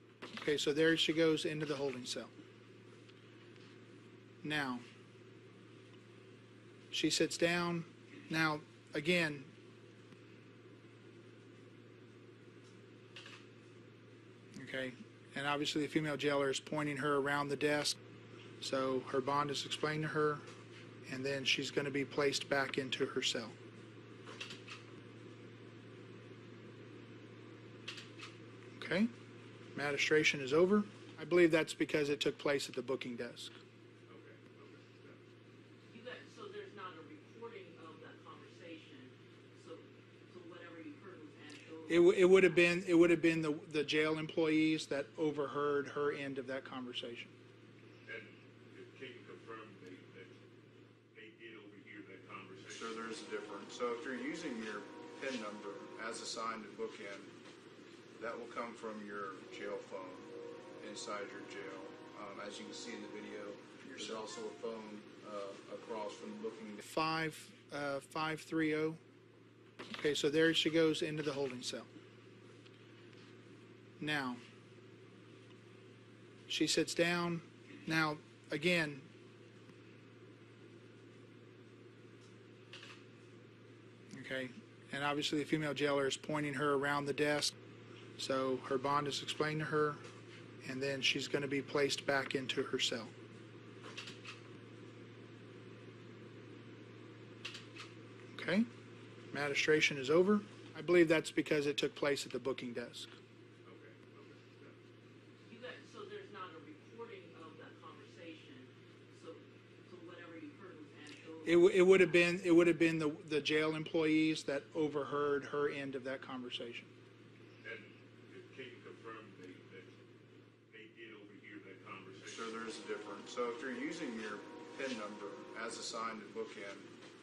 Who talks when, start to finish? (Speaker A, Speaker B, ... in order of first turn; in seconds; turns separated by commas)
Speaker A: 0.3-2.3, Speaker A: 4.4-4.8, Speaker A: 6.9-9.5, Speaker A: 14.6-18.0, Speaker A: 18.6-20.4, Speaker A: 21.1-23.5, Speaker A: 28.8-29.1, Speaker A: 29.7-33.5, Speaker B: 34.1-35.2, Speaker C: 35.9-42.7, Speaker A: 41.9-47.3, Speaker B: 48.0-50.3, Speaker B: 51.1-53.0, Speaker D: 52.7-57.3, Speaker D: 58.2-66.8, Speaker A: 66.8-69.0, Speaker A: 69.9-71.9, Speaker A: 74.0-74.4, Speaker A: 76.5-79.1, Speaker A: 84.1-87.5, Speaker A: 88.2-90.0, Speaker A: 90.6-93.1, Speaker A: 98.3-98.7, Speaker A: 99.3-103.1, Speaker B: 103.6-104.8, Speaker C: 105.4-112.2, Speaker A: 111.4-116.9, Speaker B: 117.6-120.0, Speaker B: 120.7-122.6, Speaker D: 122.2-126.9